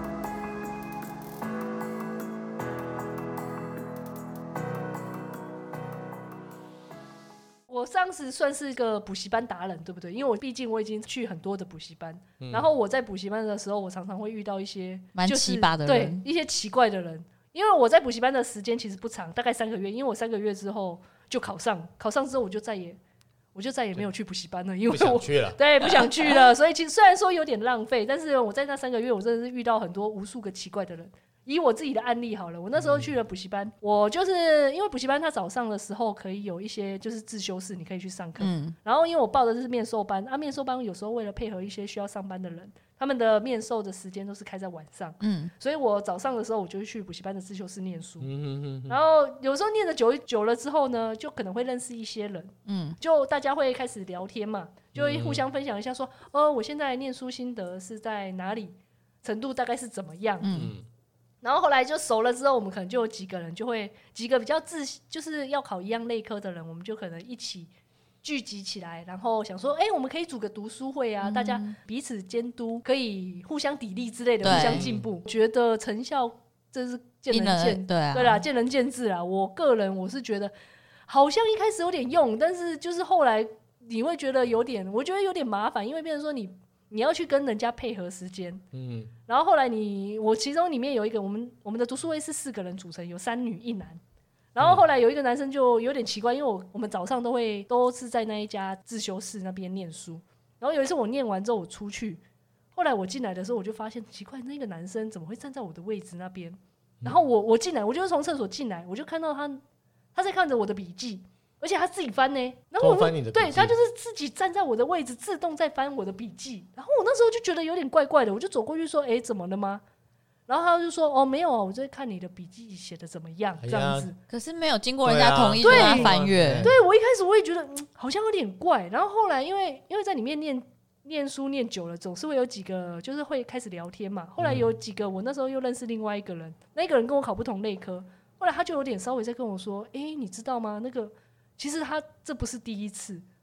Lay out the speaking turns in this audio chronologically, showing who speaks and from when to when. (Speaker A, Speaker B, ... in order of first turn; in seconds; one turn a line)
Speaker A: 7.7-23.0
Speaker B: 12.4-12.7
Speaker C: 15.2-16.2
Speaker A: 23.5-48.3
Speaker B: 24.9-25.6
Speaker B: 32.8-33.1
Speaker C: 38.4-38.8
Speaker C: 45.2-45.5
Speaker B: 48.2-49.0
Speaker A: 48.9-60.6
Speaker C: 52.7-53.0
Speaker B: 54.9-55.4
Speaker C: 60.4-60.7
Speaker B: 60.5-60.9
Speaker A: 61.4-67.7
Speaker A: 68.2-80.5
Speaker C: 71.2-71.8
Speaker B: 74.4-75.0
Speaker C: 74.4-74.8
Speaker C: 77.3-78.4
Speaker A: 81.1-88.6
Speaker B: 88.7-89.1
Speaker A: 89.3-94.0
Speaker A: 94.5-102.2
Speaker A: 102.8-109.6
Speaker A: 110.2-119.8
Speaker B: 112.8-113.7
Speaker A: 120.5-124.2
Speaker B: 123.6-124.1
Speaker C: 124.3-126.7
Speaker B: 125.0-126.8
Speaker A: 125.6-143.2
Speaker B: 134.4-134.7